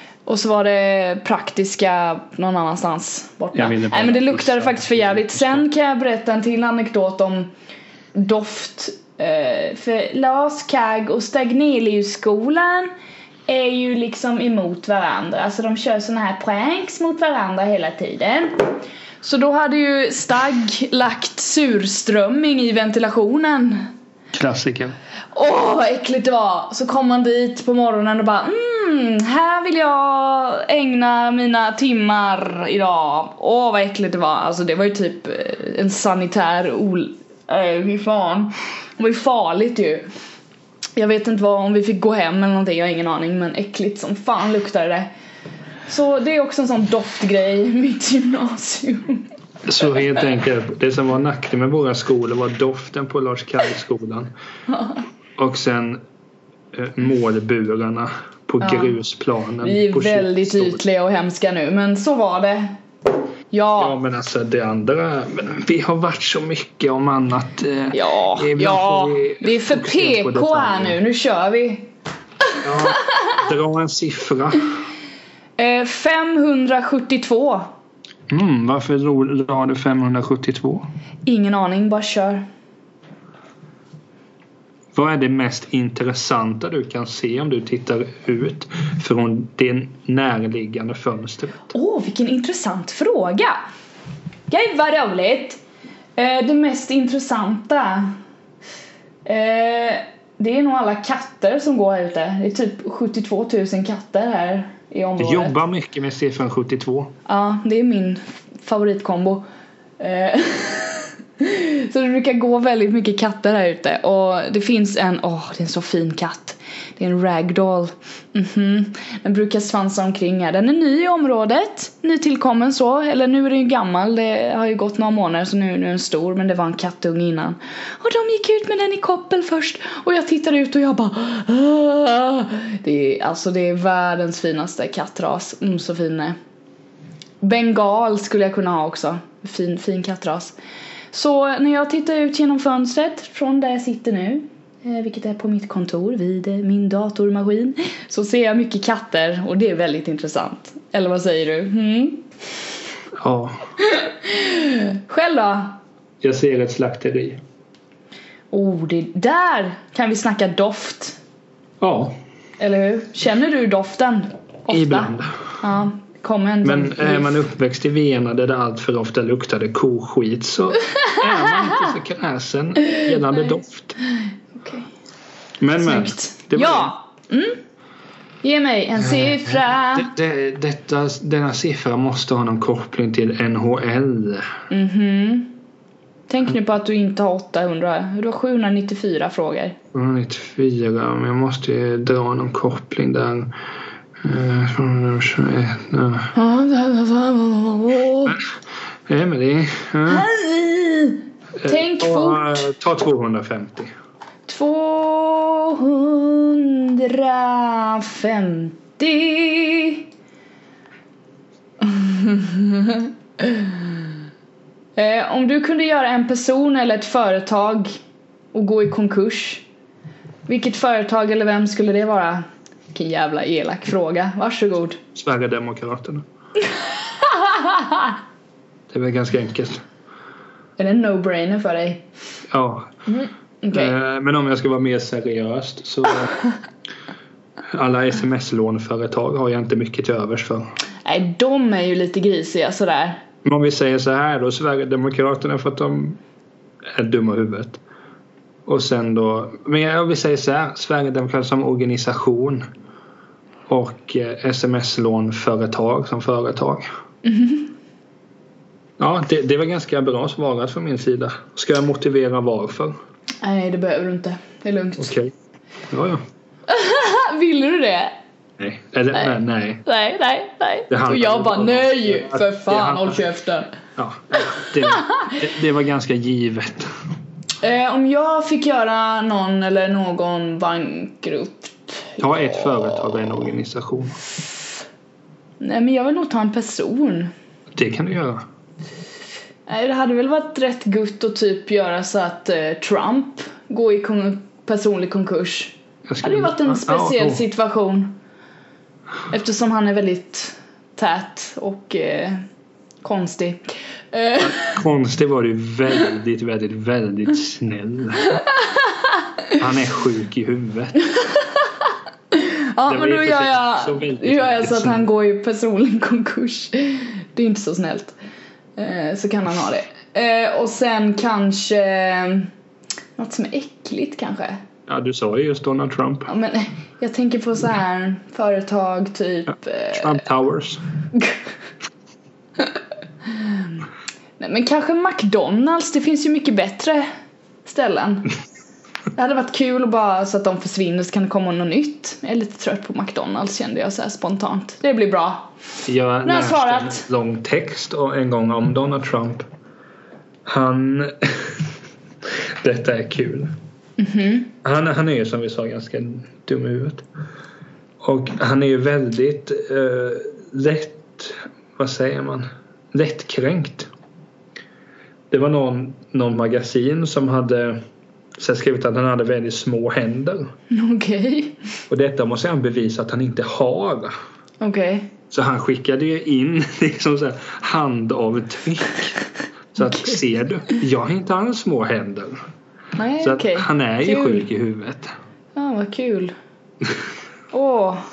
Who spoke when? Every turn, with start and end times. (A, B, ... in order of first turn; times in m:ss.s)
0:00.2-0:07.5 A
0:03.5-0:05.6 B
0:08.1-0:12.9 A
0:13.5-0:23.9 A
0:24.3-0:24.9 B
0:25.3-0:40.0 A
0:41.0-0:45.1 A
0:45.9-0:49.2 A
0:49.6-0:54.3 B
0:55.4-0:56.0 B
0:56.7-1:00.8 B
0:58.6-0:58.9 A
0:59.6-1:02.8 A
1:03.5-1:04.0 A
1:03.8-1:11.0 B
1:07.9-1:11.9 A
1:12.5-1:12.9 A
1:12.6-1:14.7 B
1:15.6-1:17.7 A
1:18.3-1:20.8 B
1:21.2-1:22.4 A
1:24.9-1:31.7 B
1:31.7-1:33.6 A
1:34.5-1:35.6 A
1:36.2-1:38.1 A
1:39.2-1:45.6 A
1:45.2-1:47.1 B
1:47.3-1:49.4 A
1:50.0-2:16.4 A
2:17.4-2:20.5 A
2:21.1-2:32.2 A
2:33.2-2:33.6 B
2:33.8-2:35.8 A
2:36.2-2:37.4 B
2:38.5-2:41.2 A
2:41.8-2:42.2 B
2:42.6-2:47.4 A
2:44.7-2:45.4 B
2:46.6-2:54.0 B
2:54.6-2:54.9 A
2:55.6-2:56.9 B
2:55.8-2:57.6 A
2:58.4-3:00.1 A
2:59.0-3:04.5 B
3:04.7-3:05.6 A
3:06.3-3:09.8 A
3:09.9-3:13.5 B
3:14.2-3:16.3 B
3:16.3-3:18.4 A
3:19.1-3:20.3 B
3:20.1-3:22.7 A
3:21.6-3:23.9 B
3:24.5-3:30.0 A
3:31.8-3:34.0 A
3:35.0-3:37.9 A
3:38.5-3:39.6 A
3:40.5-3:45.0 A
3:45.1-3:46.2 B
3:47.2-3:48.1 A
3:48.9-3:49.8 B
3:50.8-3:52.0 A
3:52.5-3:52.9 B
3:53.1-3:53.9 A
3:53.7-3:56.4 B
3:57.7-4:00.7 B
4:01.0-4:03.2 A
4:03.4-4:06.2 B
4:06.9-4:07.8 B
4:08.6-4:12.6 B
4:13.7-4:16.8 B
4:17.2-4:17.7 A
4:19.0-4:23.0 B
4:23.4-4:25.1 A
4:25.0-4:25.3 B
4:25.9-4:26.2 B
4:26.7-4:28.1 A
4:28.6-4:29.8 B
4:29.8-4:33.7 A
4:30.9-4:33.2 B
4:34.0-4:36.9 B
4:37.6-4:43.2 A
4:42.2-4:44.2 B
4:45.6-4:47.3 A
4:47.7-4:48.4 B
4:49.7-4:58.2 A
4:56.1-4:57.4 B
4:59.3-5:02.4 A
5:03.0-5:04.8 A
5:04.4-5:08.4 B
5:09.6-5:11.0 B
5:12.3-5:18.1 A
5:12.9-5:15.0 B
5:18.8-5:22.5 A
5:23.2-5:24.6 A
5:24.9-5:26.3 B
5:26.3-5:30.2 A
5:29.9-5:30.8 B
5:33.3-5:33.7 A
5:34.4-5:37.1 A
5:37.6-5:38.3 A
5:39.1-5:45.5 A
5:45.8-5:49.4 B
5:46.2-5:47.0 A
5:50.4-5:51.7 B
5:52.6-5:53.5 B
5:54.0-5:54.5 A
5:54.6-5:57.0 B
5:58.0-6:03.9 B
6:05.3-6:07.8 B
6:08.4-6:10.5 B
6:10.7-6:11.6 A
6:11.9-6:14.1 B
6:14.6-6:15.1 A
6:15.3-6:19.2 B
6:19.7-6:22.4 B
6:23.0-6:24.4 A
6:23.2-6:25.1 B
6:25.6-6:26.3 A
6:27.5-6:28.0 A